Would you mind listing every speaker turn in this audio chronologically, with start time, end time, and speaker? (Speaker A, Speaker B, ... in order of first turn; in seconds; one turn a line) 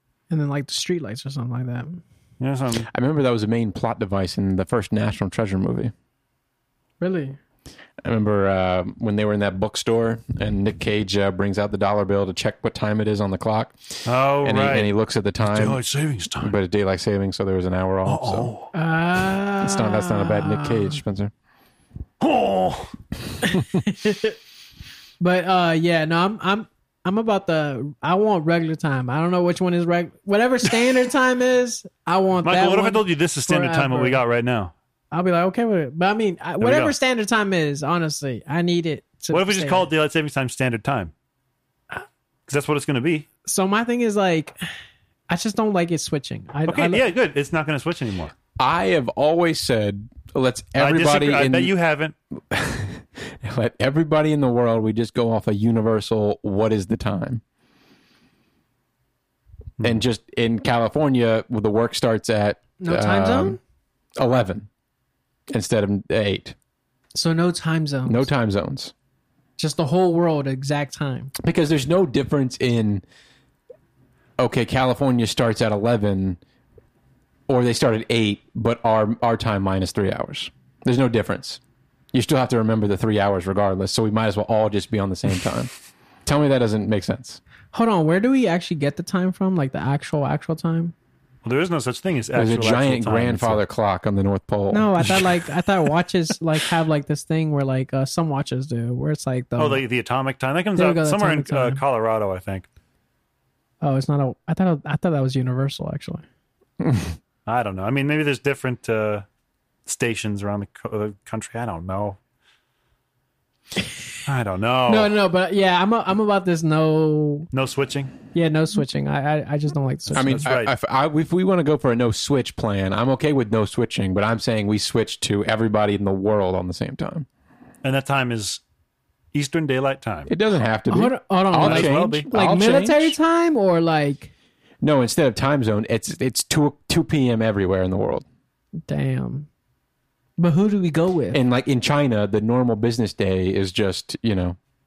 Speaker A: 0.3-2.0
Speaker B: 2.4-2.9
Speaker C: 2.9-5.9
Speaker A: 7.0-7.4
Speaker C: 8.0-15.8
Speaker B: 14.1-14.9
Speaker B: 15.4-16.6
Speaker C: 16.4-18.5
Speaker B: 18.1-18.7
Speaker A: 18.7-21.0
Speaker C: 19.6-21.3
Speaker B: 22.2-22.9
Speaker A: 23.4-24.4
Speaker A: 25.2-34.2
Speaker B: 32.4-34.7
Speaker A: 35.1-39.9
Speaker B: 36.6-36.9
Speaker B: 39.3-41.1
Speaker B: 42.5-43.3
Speaker A: 43.5-44.6
Speaker A: 45.3-47.1
Speaker B: 46.7-48.3
Speaker C: 48.6-51.7
Speaker B: 50.8-52.1
Speaker C: 52.5-57.4
Speaker C: 59.8-63.6
Speaker A: 62.8-63.6
Speaker C: 64.2-64.7
Speaker C: 65.5-66.5
Speaker A: 67.2-68.3
Speaker C: 68.1-68.9
Speaker A: 69.6-71.3
Speaker C: 71.4-73.0
Speaker C: 74.4-76.4
Speaker C: 77.5-81.6
Speaker C: 82.1-85.7
Speaker C: 86.3-87.4
Speaker A: 87.7-90.9
Speaker B: 91.4-93.6
Speaker C: 92.3-95.3
Speaker A: 94.7-99.8
Speaker B: 99.6-102.7
Speaker A: 100.8-101.8
Speaker A: 103.8-106.2
Speaker C: 106.8-107.1
Speaker B: 107.5-109.3
Speaker B: 109.9-112.2
Speaker B: 114.3-115.2
Speaker A: 114.9-117.5
Speaker B: 117.5-118.1
Speaker A: 118.3-120.5
Speaker C: 120.2-127.3
Speaker B: 120.2-120.7
Speaker B: 127.8-128.6
Speaker B: 129.3-130.3
Speaker C: 130.3-133.2
Speaker A: 130.9-134.3
Speaker B: 131.6-132.3
Speaker C: 134.8-138.2
Speaker A: 138.9-139.5
Speaker A: 140.4-141.4
Speaker C: 141.3-144.6